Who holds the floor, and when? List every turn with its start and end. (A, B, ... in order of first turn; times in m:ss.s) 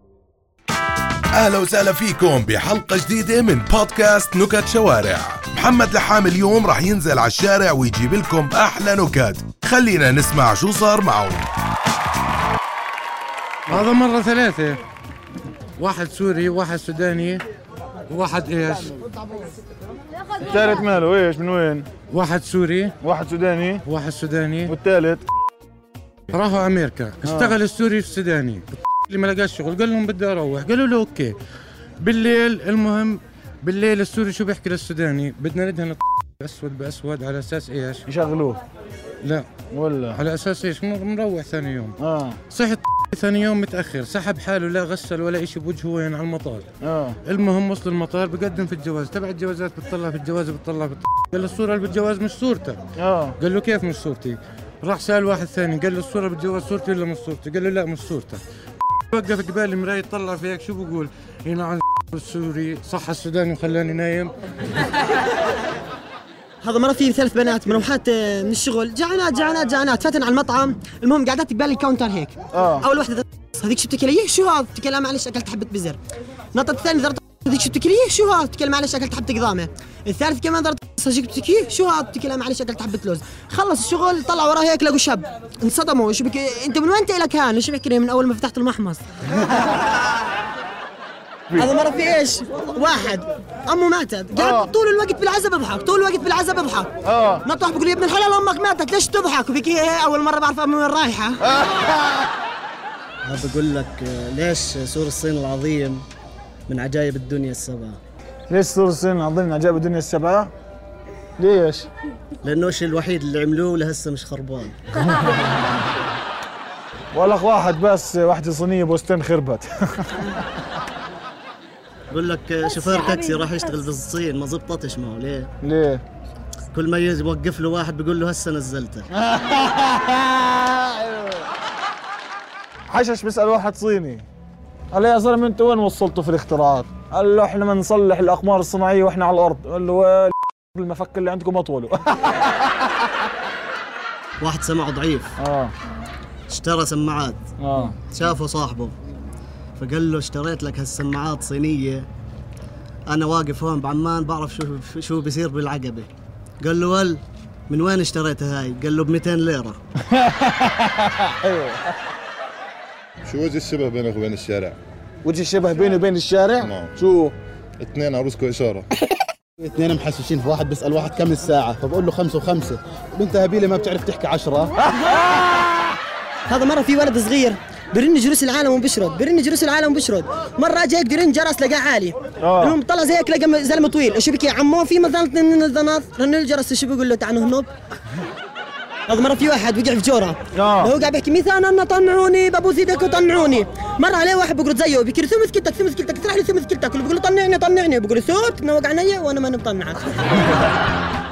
0:01.3-0:11.4 A
0:13.7-0:14.8 B
0:15.8-0:17.4 B
0:18.1-0:18.9 B
0:20.5-0:21.8 C
0:22.1-0:23.0 B
0:23.0-0:23.8 C
0:23.8-0:24.7 B
0:24.7-0:25.2 C
0:26.3-0:31.3 B
0:32.0-0:38.0 B
0:38.1-0:38.6 C
0:39.7-0:40.2 C
0:40.1-0:41.9 B
0:42.0-0:42.4 C
0:42.5-0:46.6 B
0:46.8-0:47.2 C
0:47.2-0:52.8 B
0:53.0-0:53.3 C
0:53.4-0:58.4 B
0:59.1-1:04.3 B
1:06.6-1:16.0 D
1:12.6-1:12.8 C
1:16.5-1:29.0 D
1:31.5-1:41.4 D
1:43.2-1:46.0 E
1:46.7-1:48.0 E
1:48.5-1:50.5 C
1:51.4-1:51.9 C
1:52.4-1:54.8 E
1:57.1-1:59.6 C
2:02.1-2:05.5 E
2:05.6-2:06.0 C
2:06.7-2:09.1 E
2:12.9-2:14.2 C
2:14.9-2:21.9 C
2:24.4-2:25.4 E
2:25.4-2:25.7 C
2:26.5-2:27.4 E
2:27.6-2:27.9 C
2:28.0-2:29.0 E
2:29.8-2:32.1 E
2:33.1-2:36.1 E
2:36.6-2:39.8 E
2:41.5-2:41.7 C
2:43.2-2:44.8 F
2:45.2-2:47.3 C
2:46.6-2:47.0 F
2:47.8-2:48.8 F
2:49.6-2:54.7 G
2:56.5-3:07.7 D
3:02.4-3:02.7 C
3:09.1-3:20.4 D
3:10.5-3:10.9 C